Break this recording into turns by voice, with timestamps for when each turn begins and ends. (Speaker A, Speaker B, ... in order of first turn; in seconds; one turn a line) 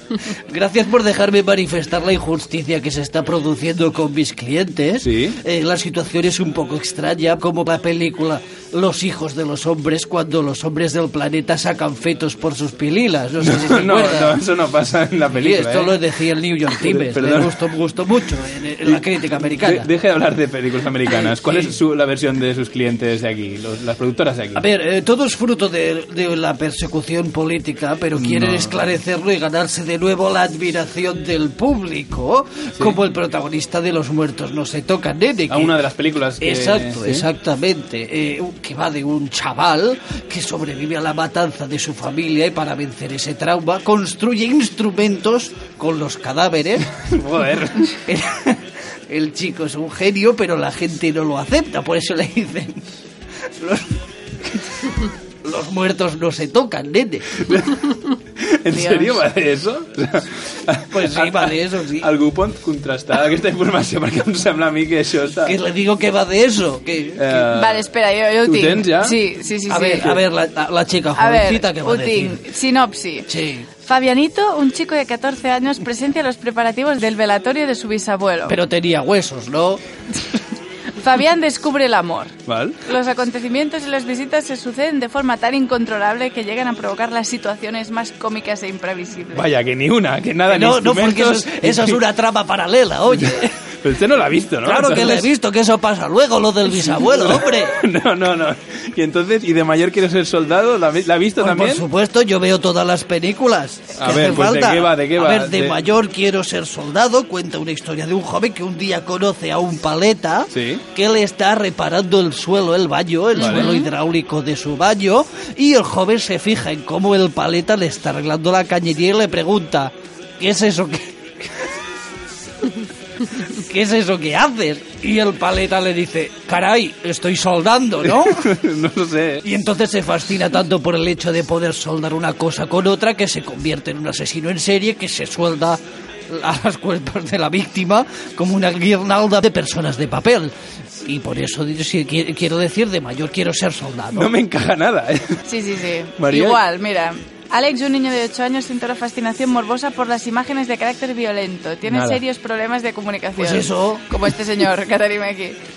Speaker A: 0.3-14.4
Speaker B: 5.0-5.4
Speaker B: 13.4-16.0
Speaker A: 15.3-19.9
Speaker B: 16.8-17.6
Speaker B: 19.6-24.6
Speaker A: 24.5-35.7
Speaker B: 28.2-28.8
Speaker B: 35.5-37.2
Speaker A: 36.4-46.9
Speaker B: 47.0-48.0
Speaker A: 48.1-52.8
Speaker A: 53.6-53.9
Speaker A: 55.4-57.4
Speaker B: 57.4-65.5
Speaker C: 58.7-59.2
Speaker A: 60.9-62.1
Speaker A: 65.4-67.4
Speaker B: 67.2-67.9
Speaker C: 67.5-70.2
Speaker B: 68.4-69.2
Speaker A: 69.7-72.4
Speaker C: 71.2-73.3
Speaker A: 73.3-73.7
Speaker C: 73.8-78.6
Speaker A: 78.5-79.8
Speaker C: 81.0-89.4
Speaker B: 82.5-82.8
Speaker B: 89.3-92.0
Speaker A: 90.5-93.5
Speaker B: 93.2-95.3
Speaker A: 94.6-97.8
Speaker B: 97.0-101.8
Speaker A: 101.4-121.2
Speaker B: 104.0-105.8
Speaker B: 110.5-110.8
Speaker B: 113.4-113.7
Speaker C: 113.4-113.8
Speaker A: 123.5-128.4
Speaker B: 128.1-129.4
Speaker A: 129.4-144.3
Speaker B: 144.1-145.4
Speaker C: 145.4-155.6
Speaker B: 146.2-146.6
Speaker B: 151.9-152.2
Speaker A: 153.4-154.0